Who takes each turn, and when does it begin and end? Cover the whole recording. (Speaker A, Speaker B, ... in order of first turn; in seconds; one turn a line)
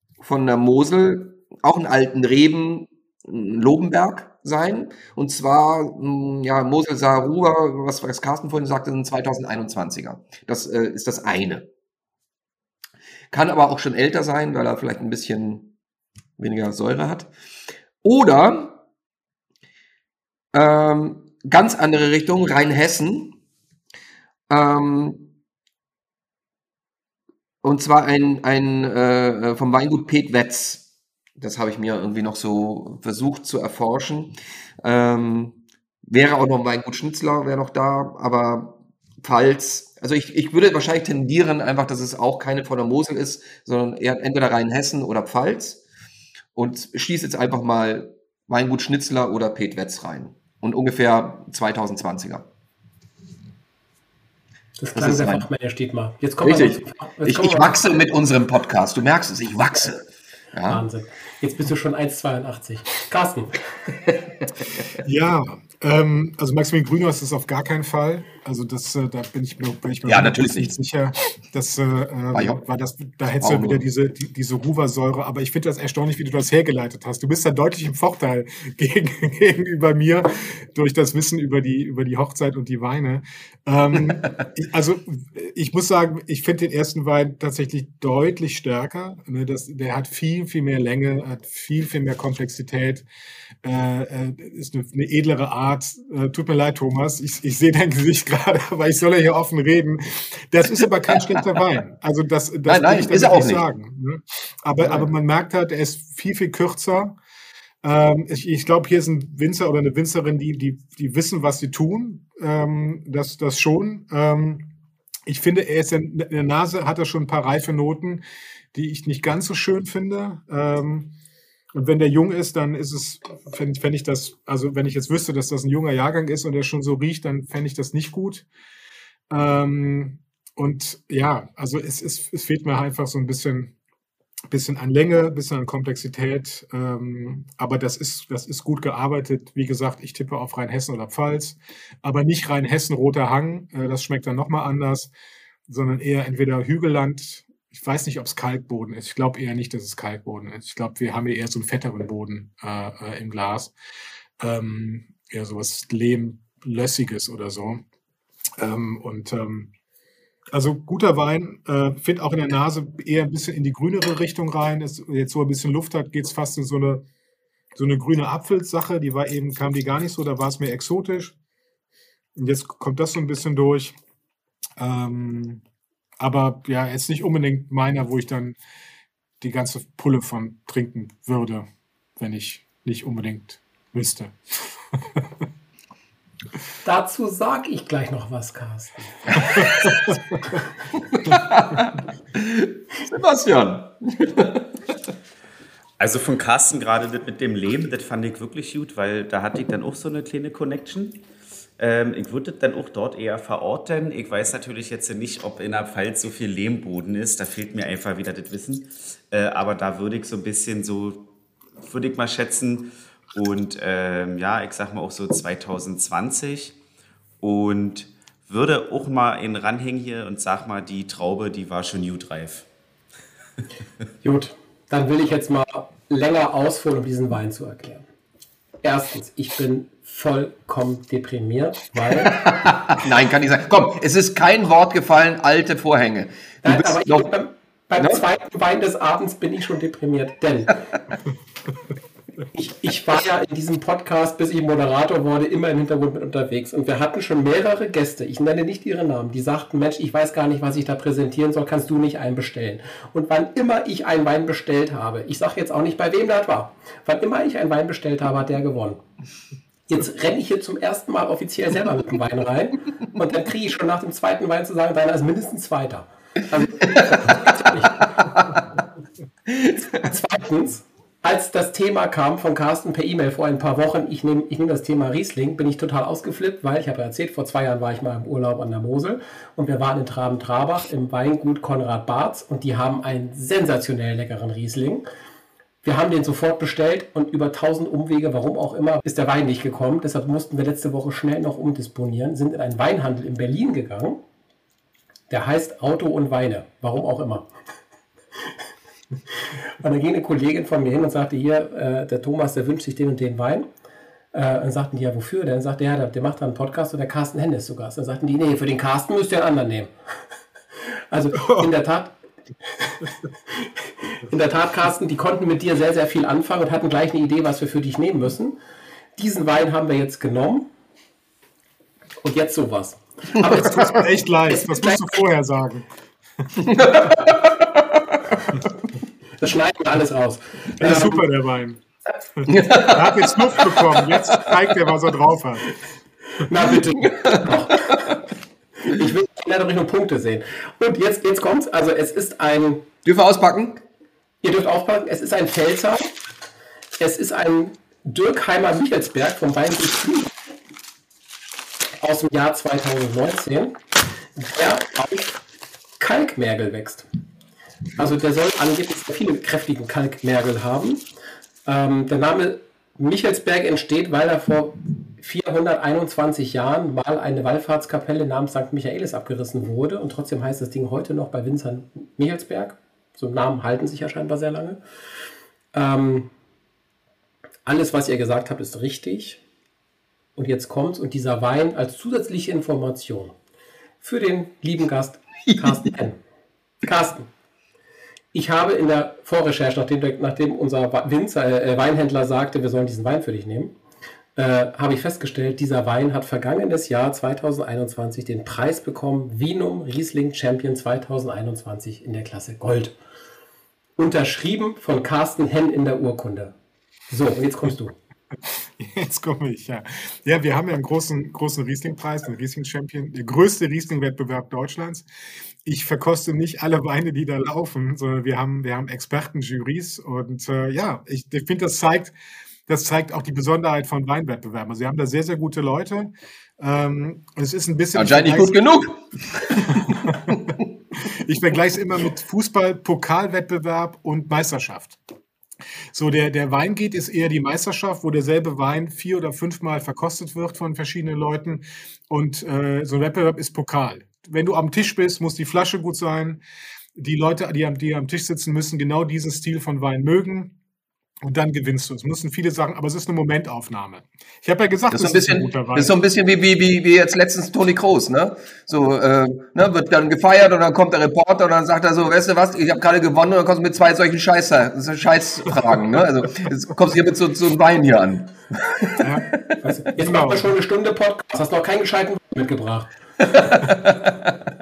Speaker A: 0.2-11.7
Speaker A: 13.3-15.7
Speaker A: 16.4-17.3
Speaker A: 18.0-18.8
Speaker A: 20.5-23.4
Speaker A: 24.5-25.3
Speaker A: 27.6-45.8
Speaker A: 46.5-52.5
Speaker B: 54.8-57.8
Speaker A: 54.9-55.5
Speaker A: 56.4-60.8
Speaker B: 60.6-63.6
Speaker A: 64.1-64.9
Speaker C: 65.0-93.0
Speaker A: 70.0-70.7
Speaker A: 72.3-72.6
Speaker A: 73.4-73.8
Speaker C: 93.6-107.2
Speaker A: 102.7-103.7
Speaker A: 104.8-105.1
Speaker C: 107.8-114.7
Speaker C: 115.2-118.2
Speaker C: 118.7-121.1
Speaker C: 121.7-128.4
Speaker C: 129.3-133.7
Speaker C: 134.5-145.1
Speaker C: 145.7-153.7
Speaker C: 154.4-157.8
Speaker C: 158.6-159.7
Speaker C: 160.5-167.1
Speaker C: 167.8-171.3
Speaker C: 172.3-173.9
Speaker C: 174.8-175.6
Speaker C: 176.2-178.6
Speaker C: 179.4-181.7
Speaker C: 182.2-185.3
Speaker B: 186.8-189.9
Speaker A: 191.2-194.8
Speaker D: 196.0-201.2
Speaker D: 201.8-211.3
Speaker D: 211.8-216.8
Speaker D: 217.4-222.7
Speaker B: 224.2-228.0
Speaker B: 228.8-232.4
Speaker A: 232.3-237.3
Speaker B: 236.6-240.8
Speaker B: 242.5-259.0
Speaker B: 259.9-268.1
Speaker B: 269.9-285.1
Speaker B: 285.8-294.2
Speaker B: 295.3-297.5
Speaker B: 299.8-303.7
Speaker B: 304.3-309.9
Speaker B: 311.1-312.1
Speaker B: 312.7-318.6
Speaker B: 319.1-320.7
Speaker B: 322.2-323.9
Speaker C: 323.4-325.9
Speaker B: 324.5-325.1
Speaker A: 326.6-328.2
Speaker B: 329.4-331.2
Speaker C: 330.8-331.8
Speaker C: 332.4-335.7
Speaker A: 332.4-334.5
Speaker B: 336.4-337.9
Speaker A: 337.0-337.9
Speaker B: 338.8-342.9
Speaker A: 343.0-343.8
Speaker B: 344.4-346.1
Speaker B: 347.0-350.3
Speaker B: 352.0-353.8
Speaker B: 354.4-355.3
Speaker B: 356.0-357.1
Speaker B: 357.9-361.0
Speaker B: 361.6-374.8
Speaker B: 375.7-376.3
Speaker B: 377.6-379.4
Speaker B: 380.4-383.4
Speaker B: 384.0-386.2
Speaker B: 386.8-387.3
Speaker B: 388.3-393.8
Speaker B: 394.4-402.9
Speaker B: 404.0-406.5
Speaker B: 407.1-407.9
Speaker C: 408.5-415.1
Speaker C: 415.6-422.1
Speaker C: 422.7-428.6
Speaker A: 427.9-430.6
Speaker C: 429.7-430.4
Speaker C: 431.0-435.0
Speaker C: 435.9-446.4
Speaker C: 446.9-450.5
Speaker C: 451.2-455.9
Speaker A: 454.9-469.5
Speaker C: 469.0-469.3
Speaker B: 469.6-472.9
Speaker C: 470.0-470.5
Speaker A: 473.2-474.4